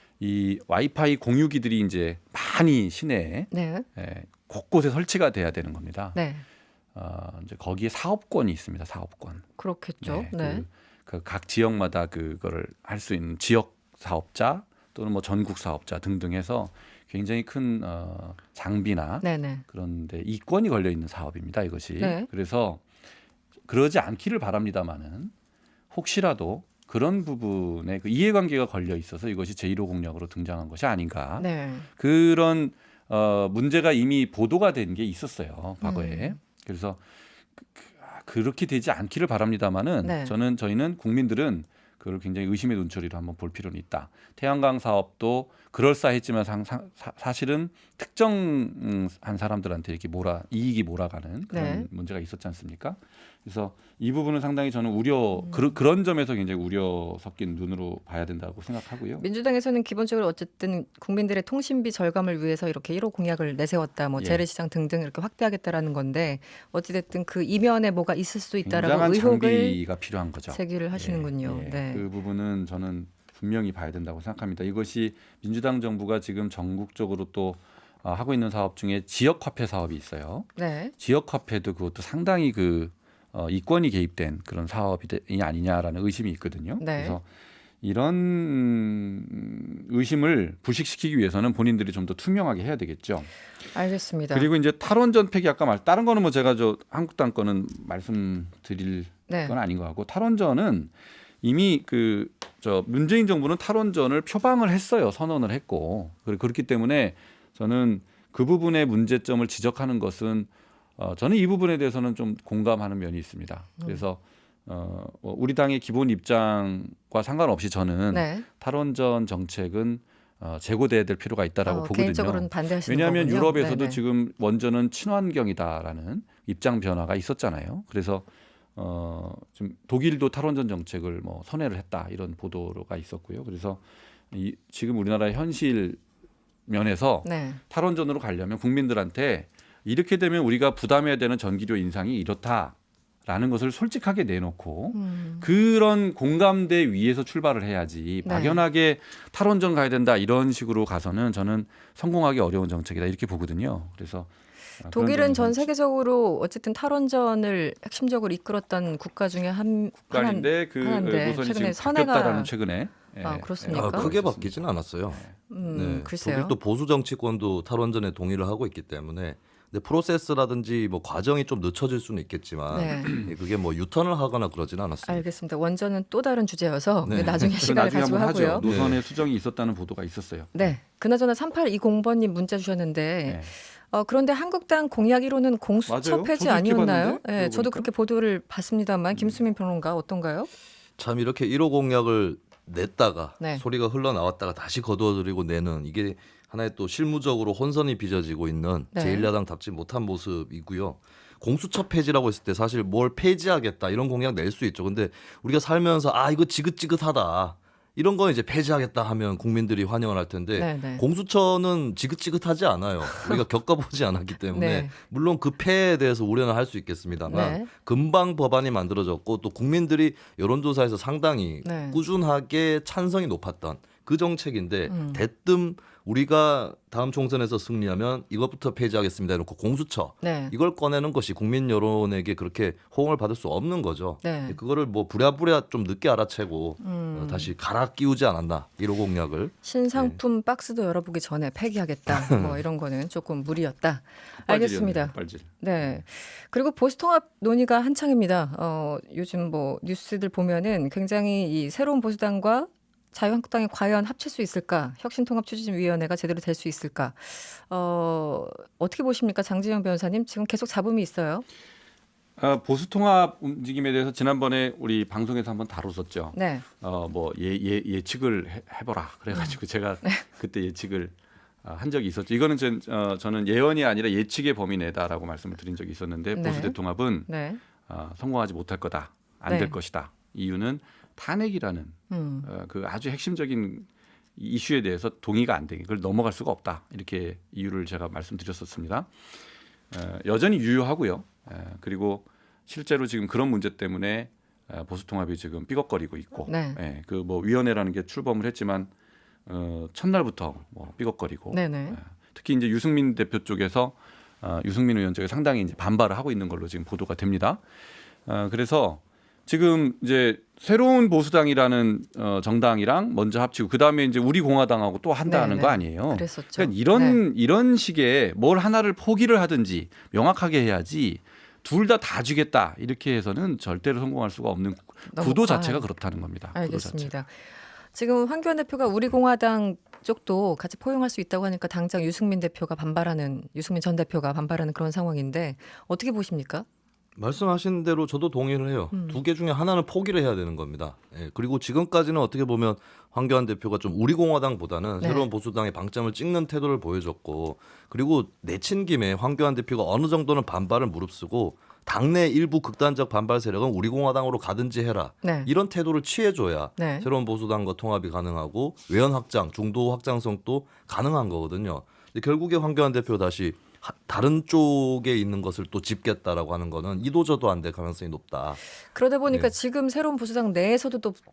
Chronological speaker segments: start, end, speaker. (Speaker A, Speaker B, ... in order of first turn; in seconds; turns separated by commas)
Speaker A: 0.2-6.2, Speaker B: 3.5-3.9, Speaker B: 6.2-6.4, Speaker A: 7.0-9.5, Speaker B: 9.6-10.7, Speaker A: 10.0-22.8, Speaker B: 19.2-19.6, Speaker B: 22.0-22.3, Speaker A: 23.7-25.3, Speaker A: 25.9-37.0, Speaker B: 31.4-31.9, Speaker B: 35.8-36.4, Speaker A: 37.6-59.2, Speaker B: 40.0-40.3, Speaker B: 51.5-51.9, Speaker B: 59.2-69.8, Speaker A: 64.2-64.4, Speaker A: 68.7-87.2, Speaker B: 70.5-72.0, Speaker B: 80.6-80.9, Speaker B: 86.8-87.2, Speaker A: 87.8-93.3, Speaker B: 93.8-94.5, Speaker A: 94.3-100.9, Speaker A: 101.4-128.2, Speaker B: 118.1-118.5, Speaker B: 121.7-124.0, Speaker A: 128.8-133.8, Speaker A: 134.3-136.0, Speaker A: 136.7-142.8, Speaker B: 137.2-137.6, Speaker A: 143.3-154.3, Speaker B: 144.9-145.5, Speaker B: 148.2-148.6, Speaker A: 154.8-155.7, Speaker B: 154.9-162.5, Speaker A: 160.1-165.3, Speaker B: 163.2-164.1, Speaker C: 163.7-175.2, Speaker B: 165.5-166.5, Speaker B: 172.7-173.2, Speaker B: 175.1-178.7, Speaker C: 177.0-177.5, Speaker A: 177.2-180.5, Speaker C: 178.6-179.0, Speaker B: 180.6-190.5, Speaker A: 183.3-183.5, Speaker A: 185.9-187.9, Speaker C: 191.0-240.2, Speaker B: 198.9-199.3, Speaker B: 210.6-211.0, Speaker B: 213.1-213.4, Speaker B: 214.5-214.9, Speaker B: 217.3-217.7, Speaker B: 221.6-222.0, Speaker B: 224.9-225.2, Speaker B: 230.2-230.5, Speaker B: 234.2-234.6, Speaker B: 236.8-237.5, Speaker B: 239.6-261.4, Speaker C: 242.1-242.6, Speaker A: 244.4-245.9, Speaker A: 262.4-277.3, Speaker B: 266.3-266.6, Speaker B: 276.3-276.8, Speaker B: 277.3-277.6, Speaker A: 277.9-289.1, Speaker B: 279.5-279.8, Speaker B: 282.1-282.5, Speaker A: 289.9-298.9, Speaker B: 296.5-296.8, Speaker A: 299.5-307.6, Speaker B: 301.5-302.0, Speaker A: 308.3-327.1, Speaker B: 315.2-317.2, Speaker B: 325.1-325.8, Speaker B: 326.5-327.4, Speaker B: 327.9-336.7, Speaker C: 337.2-368.6, Speaker B: 338.9-339.2, Speaker B: 345.0-345.3, Speaker B: 355.2-355.5, Speaker B: 356.8-357.1, Speaker B: 368.9-371.2